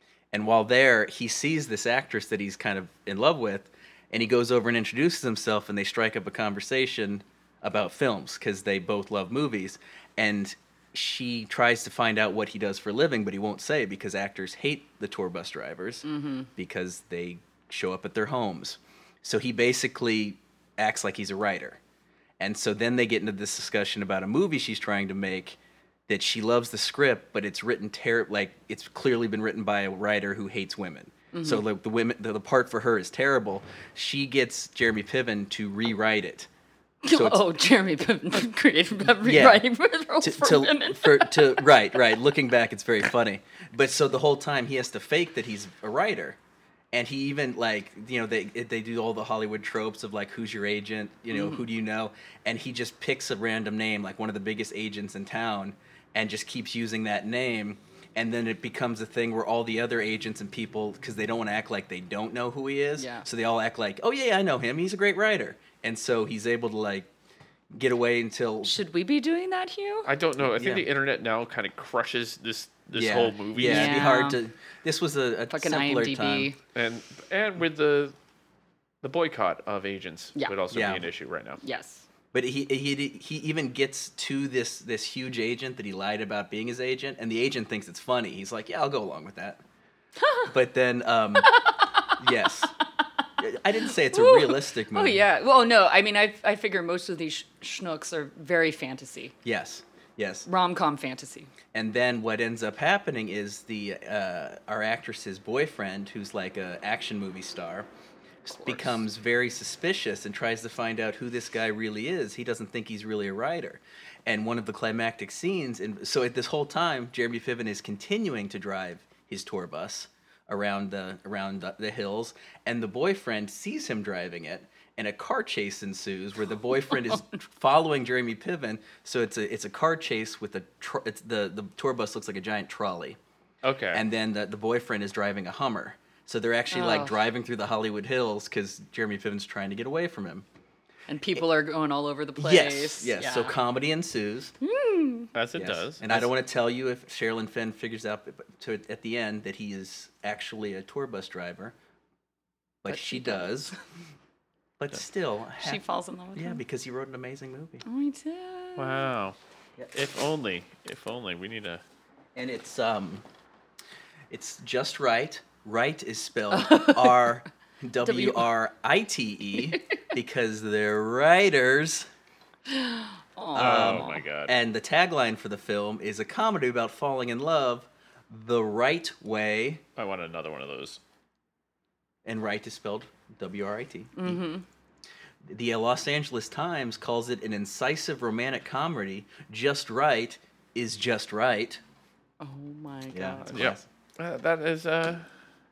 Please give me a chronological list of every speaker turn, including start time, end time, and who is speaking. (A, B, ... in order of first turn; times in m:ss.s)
0:00.3-0:16.0 A
0:16.0-0:16.5 B
0:16.6-0:21.8 A
0:22.4-0:36.5 A
0:31.3-0:31.6 B
0:37.0-0:41.8 B
0:37.1-0:37.4 A
0:39.2-0:39.6 A
0:40.2-0:46.4 A
0:46.9-1:07.1 A
0:51.3-0:51.6 B
1:03.0-1:03.3 B
1:07.7-1:08.7 A
1:08.6-1:10.1 B
1:10.0-1:14.1 C
1:10.4-1:10.8 A
1:12.9-1:16.5 A
1:13.6-1:14.4 B
1:15.5-1:16.6 B
1:16.7-1:18.1 C
1:19.0-1:21.6 C
1:20.7-1:21.0 A
1:21.6-1:22.0 B
1:22.3-1:29.6 A
1:30.2-1:30.5 B
1:30.5-1:31.5 A
1:31.4-1:32.2 B
1:32.2-1:32.7 A
1:33.4-1:35.2 A
1:34.0-1:39.3 B
1:39.4-1:40.5 A
1:40.4-1:41.5 B
1:41.7-1:47.9 A
1:48.4-2:13.2 A
1:48.5-1:48.9 B
2:13.6-2:14.0 C
2:13.9-2:20.4 A
2:16.7-2:17.2 B
2:21.1-2:23.5 B
2:22.4-2:24.5 A
2:24.6-2:25.3 B
2:25.3-2:26.3 C
2:25.5-2:31.7 A
2:32.8-2:33.7 A
2:32.9-2:33.7 B
2:34.8-2:35.8 A
2:35.6-2:36.6 B
2:36.4-2:37.8 A
2:37.8-2:39.1 B
2:38.8-2:39.4 C
2:39.9-2:41.8 C
2:42.3-2:43.2 A
2:44.3-2:52.1 A
2:46.5-2:47.3 B
2:48.0-2:48.5 B
2:52.7-2:54.2 B
2:53.5-2:59.8 A
2:53.5-2:54.5 C
3:00.0-3:01.0 C
3:02.2-3:04.4 A
3:04.2-3:04.6 B
3:05.4-3:11.8 A
3:12.4-3:13.8 B
3:13.1-3:13.8 A
3:13.5-3:15.3 C